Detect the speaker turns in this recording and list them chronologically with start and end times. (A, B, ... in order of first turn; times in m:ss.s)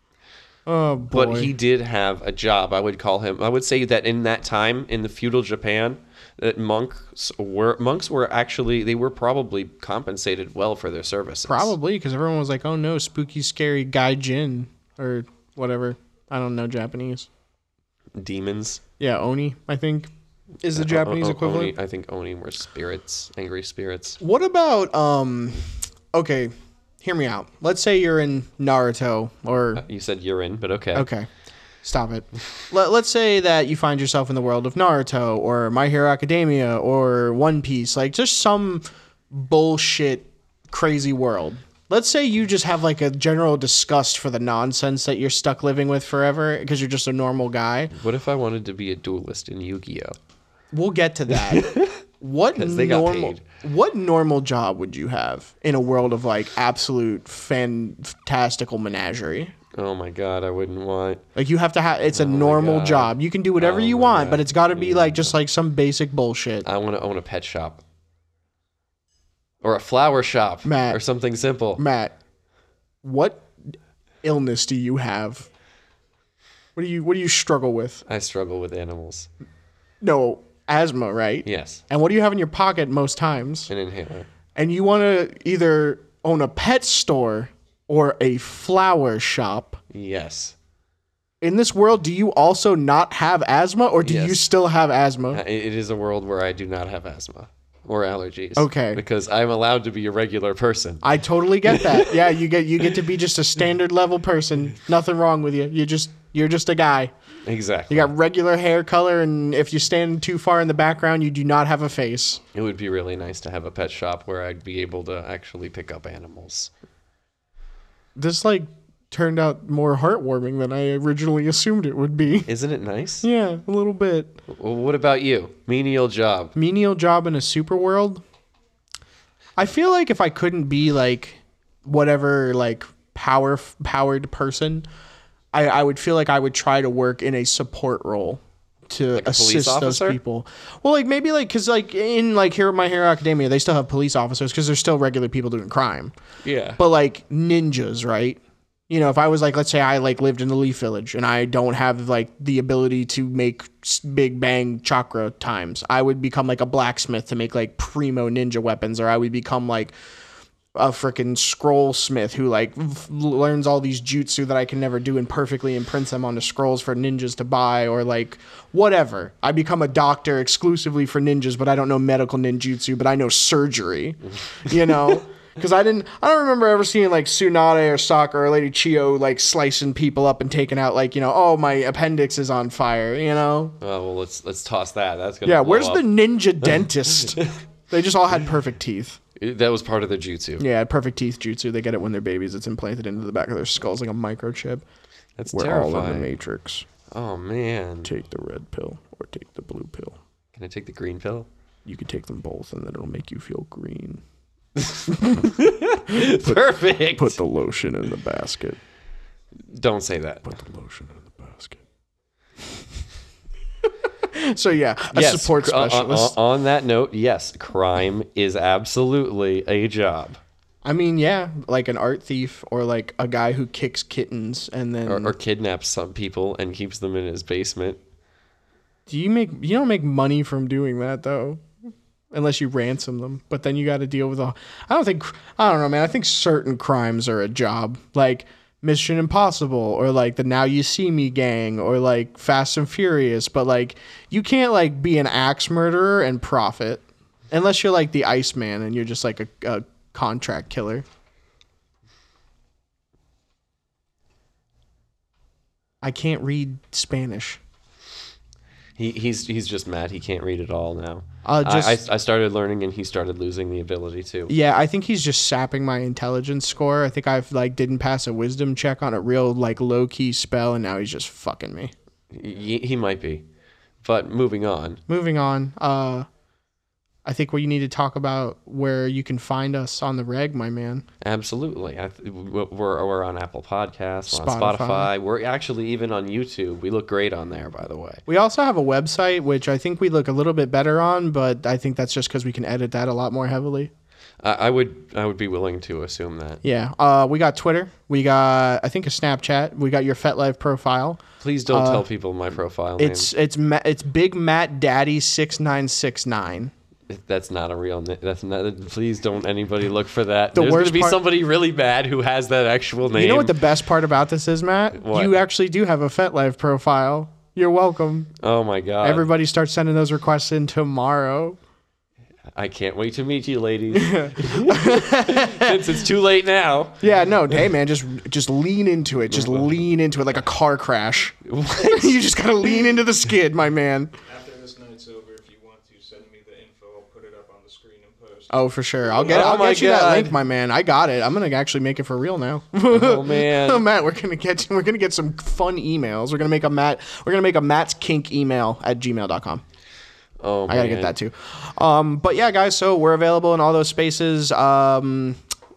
0:00.7-0:01.5 A
0:01.1-0:11.7 B
0:11.4-0:17.3 A
0:18.2-0:18.8 B
0:19.0-0:20.1 A
0:20.6-0:21.7 A
0:20.8-0:24.2 B
0:24.2-0:29.8 A
0:29.8-0:31.1 B
0:31.0-0:31.3 A
0:31.8-0:47.9 A
0:47.9-0:50.2 B
0:50.7-0:59.5 A
0:51.3-0:52.0 B
0:52.5-0:53.4 B
0:59.7-1:01.2 B
1:01.4-1:06.7 A
1:02.1-1:05.3 B
1:06.6-1:07.8 B
1:09.6-1:11.8 B
1:10.6-1:11.0 A
1:11.8-1:12.2 A
1:13.0-1:13.7 A
1:14.2-1:15.5 A
1:16.8-1:18.0 A
1:18.1-1:19.3 B
1:20.0-1:23.7 A
1:21.4-1:21.8 B
1:23.7-1:24.3 B
1:24.6-1:29.8 A
1:29.9-1:30.6 B
1:31.4-1:35.4 A
1:34.0-1:34.5 B
1:35.3-1:41.0 B
1:38.6-1:39.0 A
1:41.0-1:47.1 A
1:41.7-1:42.1 B
1:47.4-1:48.1 B
1:47.9-1:52.4 A
1:52.5-1:56.7 B
1:58.2-2:02.5 A
2:02.5-2:03.3 B
2:03.2-2:04.4 A
2:04.5-2:06.5 B
2:06.6-2:08.2 A
2:09.6-2:14.9 A
2:15.5-2:26.1 A
2:19.1-2:20.2 B
2:26.4-2:26.8 B
2:26.8-2:39.9 A
2:40.8-3:03.8 A
3:03.8-3:06.1 B
3:05.4-3:09.2 A
3:07.3-3:07.6 B
3:09.4-3:10.6 B
3:10.6-3:14.8 A
3:15.4-3:16.3 B
3:15.5-3:16.9 A
3:17.1-3:18.1 B
3:18.0-3:20.2 A
3:20.5-3:21.5 B
3:21.8-3:24.2 A
3:24.8-3:27.4 B
3:25.1-3:28.8 A
3:29.6-3:30.5 B
3:30.4-3:31.8 A
3:34.2-3:36.4 A
3:35.1-3:40.4 B
3:40.8-3:45.4 A
3:45.1-3:48.0 B
3:49.1-3:51.7 A
3:52.3-4:11.0 A
4:16.0-4:17.6 A
4:19.0-4:24.5 B
4:21.4-4:22.0 A
4:24.5-4:31.9 A
4:32.3-4:33.4 B
4:34.0-4:35.0 B
4:35.1-4:36.3 A
4:37.2-4:41.0 A
4:41.2-4:48.2 B
4:44.3-4:45.1 A
4:48.3-4:53.9 A
4:54.4-4:56.6 B
4:56.6-5:02.1 A
5:01.4-5:03.3 B
5:03.0-5:06.7 A
5:07.1-5:13.7 B
5:10.5-5:11.2 A
5:13.1-5:18.3 A
5:15.0-5:15.4 B
5:18.4-5:19.3 B
5:19.0-5:21.6 A
5:22.5-5:27.0 B
5:23.9-5:26.1 A
5:27.0-5:34.1 A
5:29.3-5:29.8 B
5:31.4-5:32.2 B
5:34.3-5:38.7 C
5:38.5-5:49.6 A
5:39.2-5:40.4 B
5:42.9-5:43.9 B
5:50.4-5:51.2 B
5:50.7-5:55.4 A